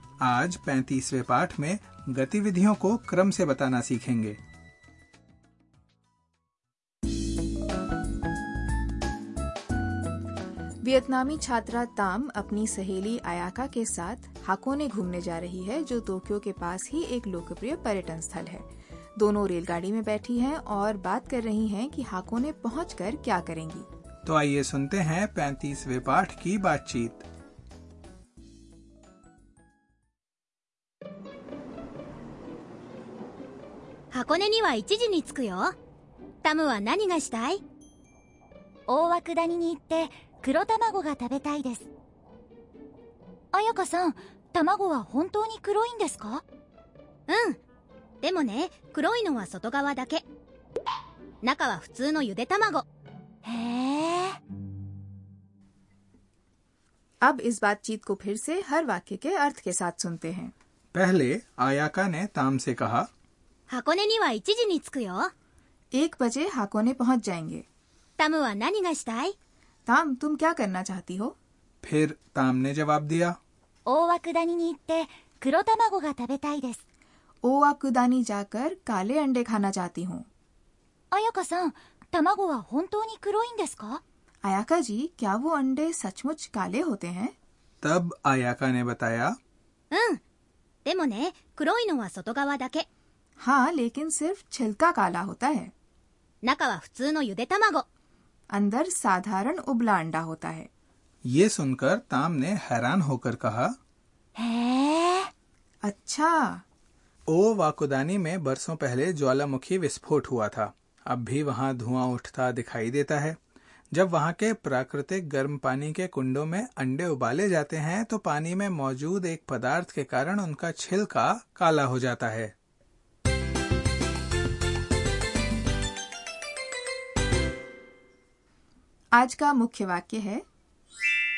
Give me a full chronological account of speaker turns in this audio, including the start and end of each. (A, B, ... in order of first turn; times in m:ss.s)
0:00.2-0:04.4 A
0:10.8-0:23.9 B
0:24.2-0:27.2 A
0:34.1-0:35.7 C
0:36.4-0:37.6 C
0:38.9-0:41.9 C
0:43.5-0:46.4 C
0:47.3-0:47.6 C
0:48.2-0:50.2 C
0:51.4-0:52.8 C
0:53.4-0:54.4 C
0:57.2-1:00.5 B
1:00.9-1:03.1 A
1:03.7-1:05.3 C
1:05.9-1:07.6 B
1:08.2-1:09.3 C
1:09.9-1:11.3 B
1:11.8-1:13.4 A
1:13.8-1:16.8 C
1:17.4-1:20.2 B
1:21.1-1:24.0 C
1:24.4-1:27.3 B
1:27.8-1:29.4 A
1:29.9-1:30.2 C
1:30.8-1:32.8 C
1:33.4-1:35.7 B
1:36.4-1:37.8 C
1:38.5-1:40.7 B
1:41.2-1:43.8 A
1:44.4-1:45.3 C
1:45.8-1:46.6 B
1:47.3-1:53.4 A
1:53.9-2:02.5 A
2:09.1-2:10.4 B